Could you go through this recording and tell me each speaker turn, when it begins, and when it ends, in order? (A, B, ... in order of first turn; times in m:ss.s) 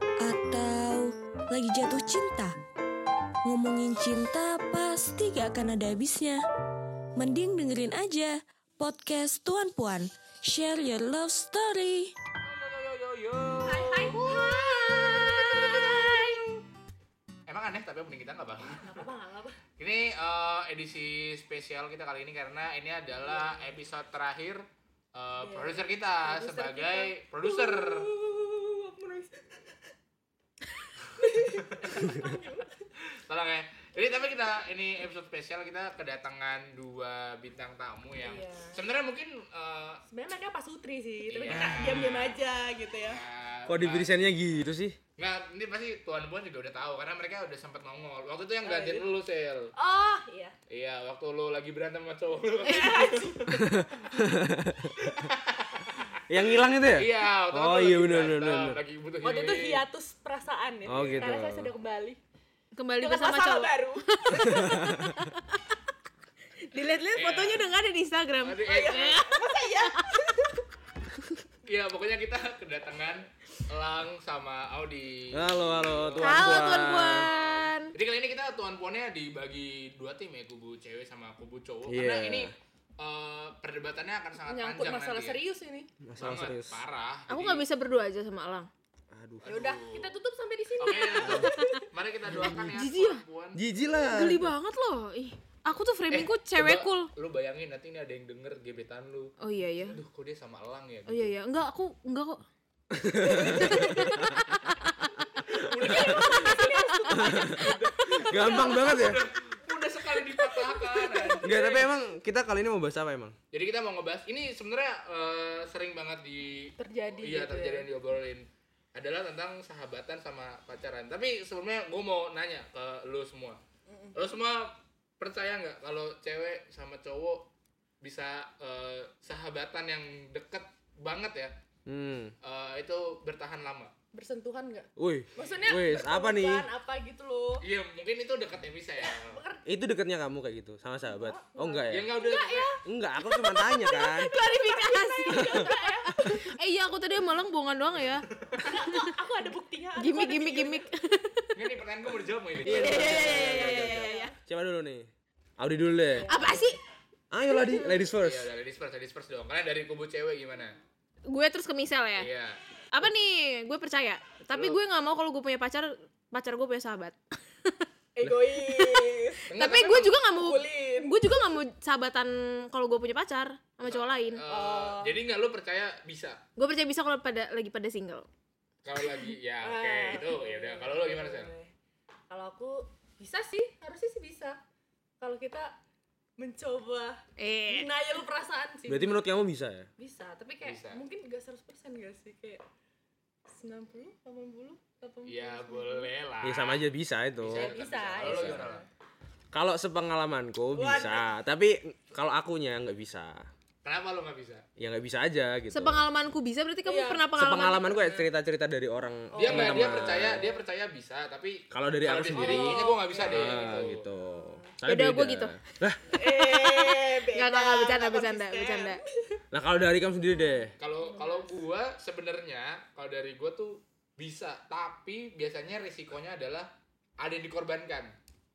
0:00.2-0:02.6 A
0:03.4-0:06.4 A
0:07.2-0:12.1 A
0:12.4-0:14.3 B
0:13.6-0:16.6 C
0:14.2-0:16.0 D
0:15.7-0:16.3 B
0:17.5-0:19.0 B
0:18.6-0:19.6 C
0:19.8-0:24.6 B
0:23.3-0:23.6 C
0:25.1-0:28.1 B
0:25.4-0:29.8 C
0:31.2-0:32.9 C
0:31.4-0:32.0 B
0:33.1-0:40.0 B
0:38.2-0:38.8 C
0:40.1-0:43.2 C
0:41.3-0:42.4 B
0:41.5-0:42.1 E
0:43.0-0:44.3 B
0:43.7-0:45.0 E
0:45.2-0:49.7 B
0:48.6-0:49.1 C
0:49.8-0:50.6 C
0:50.7-0:53.8 B
0:52.6-0:53.4 C
0:53.5-0:55.0 E
0:55.0-0:56.2 B
0:56.3-0:58.8 E
0:56.8-0:59.8 B
0:59.2-1:02.2 C
1:00.8-1:01.7 E
1:00.9-1:01.3 B
1:02.8-1:05.3 D
1:03.0-1:05.2 C
1:04.4-1:05.1 E
1:06.7-1:09.6 D
1:07.1-1:07.7 B
1:08.4-1:09.2 B
1:08.6-1:10.6 C
1:11.6-1:16.8 B
1:15.3-1:17.3 E
1:16.2-1:17.9 D
1:17.9-1:25.4 B
1:21.9-1:22.5 E
1:24.4-1:25.9 C
1:26.0-1:26.8 E
1:26.2-1:27.6 B
1:27.3-1:28.7 D
1:29.1-1:29.6 E
1:29.4-1:30.1 B
1:29.4-1:31.8 C
1:30.8-1:33.6 B
1:31.3-1:31.8 D
1:32.3-1:32.6 E
1:32.4-1:33.2 D
1:33.6-1:34.5 E
1:34.0-1:37.1 D
1:36.1-1:41.3 B
1:39.4-1:40.0 D
1:41.1-1:42.4 D
1:42.9-1:44.3 E
1:43.3-1:45.0 D
1:43.7-1:44.1 C
1:45.4-1:46.7 B
1:45.6-1:49.1 C
1:45.8-1:46.2 E
1:46.4-1:46.8 D
1:47.1-1:49.2 E
1:47.3-1:51.9 B
1:50.2-1:51.8 C
1:51.4-1:53.4 E
1:53.5-2:03.6 B
1:56.8-1:57.9 C
2:03.9-2:04.2 C
2:04.2-2:07.5 B
2:08.0-2:11.5 B
2:11.8-2:12.3 E
2:12.4-2:13.9 B
2:14.1-2:17.6 C
2:15.0-2:16.7 E
2:17.6-2:19.4 B
2:19.0-2:19.7 C
2:19.7-2:22.1 E
2:21.1-2:26.5 C
2:21.9-2:22.8 B
2:22.8-2:24.3 E
2:23.8-2:28.9 D
2:28.6-2:30.8 C
2:30.0-2:31.5 D
2:31.5-2:33.8 B
2:32.6-2:36.4 E
2:32.6-2:34.3 D
2:32.7-2:34.3 C
2:36.1-2:36.8 C
2:36.3-2:36.8 D
2:37.3-2:38.5 E
2:38.2-2:40.8 B
2:41.3-2:42.3 D
2:42.2-2:42.6 B
2:42.9-2:47.8 D
2:44.5-2:44.8 B
2:48.2-2:49.5 C
2:48.6-2:54.4 D
2:49.5-2:50.2 B
2:50.3-2:51.2 C
2:53.8-2:56.4 B
2:54.5-2:55.2 C
2:56.6-2:58.3 D
2:58.8-3:01.5 B
2:59.6-3:01.7 C
3:02.3-3:04.6 C
3:05.2-3:05.8 C
3:06.4-3:09.2 C
3:07.4-3:07.9 D
3:08.9-3:09.9 E
3:10.0-3:12.6 C
3:10.6-3:11.0 B
3:13.5-3:16.1 C
3:15.2-3:16.8 B
3:16.4-3:18.6 E
3:17.4-3:18.8 B
3:17.5-3:18.9 C
3:19.5-3:23.5 E
3:20.7-3:21.3 C
3:23.8-3:24.6 B
3:24.8-3:26.1 E
3:25.7-3:28.1 D
3:26.8-3:27.3 C
3:27.3-3:30.4 E
3:29.3-3:30.6 C
3:29.4-3:34.1 B
3:31.7-3:36.1 E
3:32.3-3:34.7 C
3:34.8-3:35.6 D
3:36.1-3:39.4 C
3:36.3-3:39.0 D
3:39.5-3:40.7 E
3:40.3-3:41.6 C
3:40.8-3:48.1 B